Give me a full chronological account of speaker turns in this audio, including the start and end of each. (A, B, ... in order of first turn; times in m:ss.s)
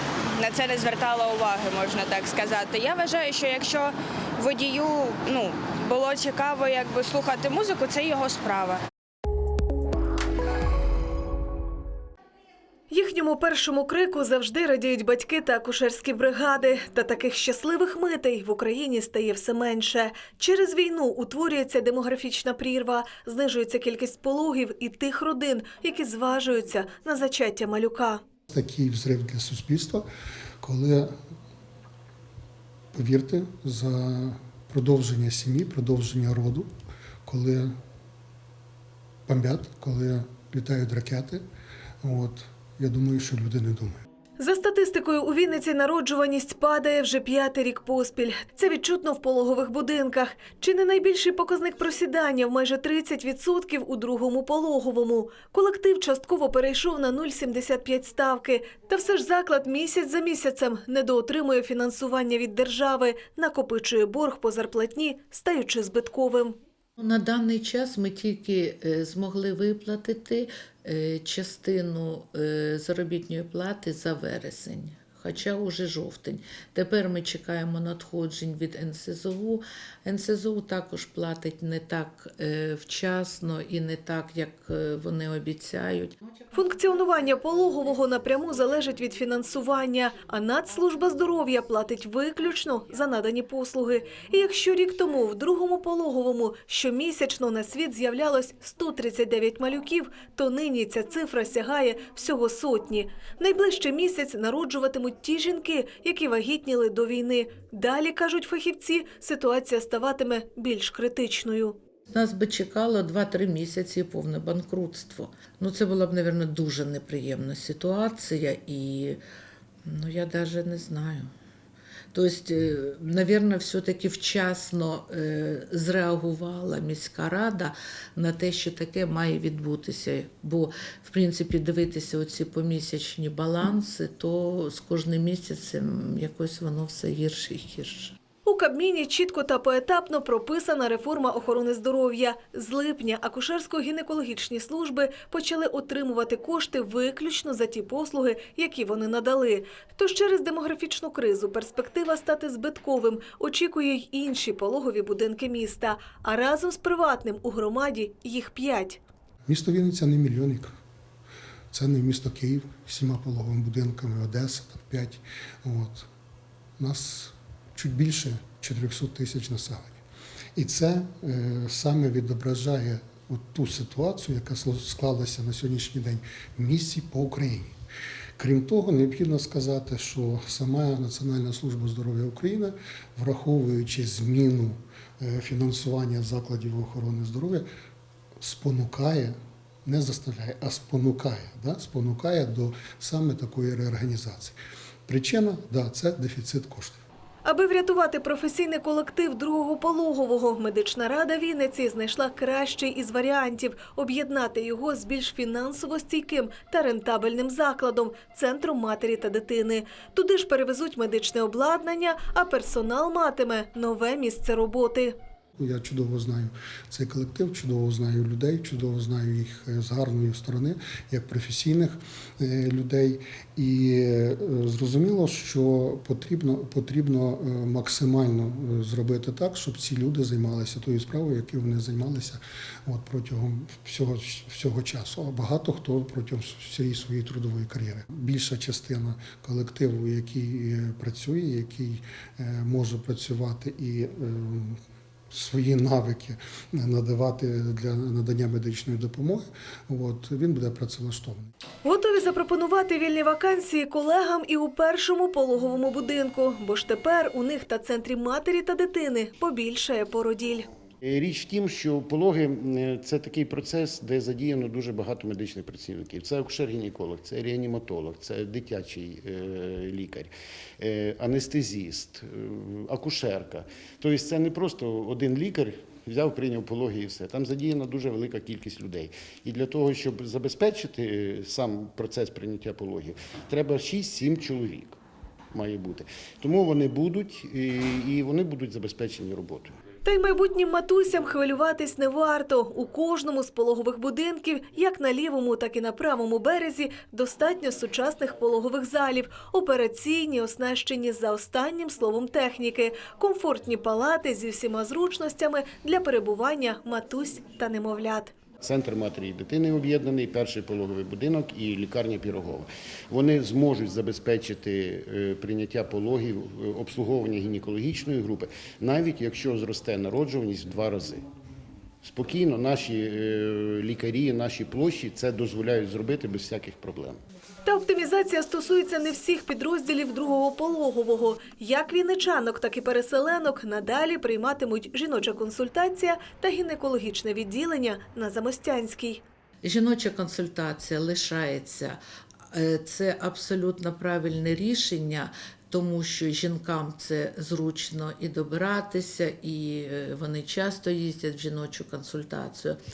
0:00.4-0:08.8 A
0:12.9-0:28.2 B
0:28.5-0:30.1 C
0:30.6-0:31.1 C
0:32.9-0:36.7 C
0:37.3-0:37.7 C
0:39.3-0:41.4 C
0:42.0-0:44.0 C
0:44.4-1:06.6 B
1:07.0-1:26.2 D
1:26.5-1:51.8 B
1:52.1-1:59.2 D
1:59.9-2:01.3 D
2:02.1-2:18.2 D
2:18.4-2:39.0 B
2:39.5-2:40.7 C
2:41.7-2:46.1 C
2:46.8-2:50.0 C
2:50.6-2:57.8 C
2:58.4-3:07.7 C
3:08.4-3:17.0 C
3:17.4-3:35.2 B
3:35.6-4:04.8 C
4:05.3-4:11.5 C
4:11.8-4:20.7 B
4:21.0-4:45.0 E
4:45.5-4:49.7 E
4:50.0-5:08.3 B
5:08.6-5:21.2 E
5:22.0-5:27.2 E
5:27.7-5:39.2 B
5:39.6-5:42.0 D
5:42.5-5:52.8 D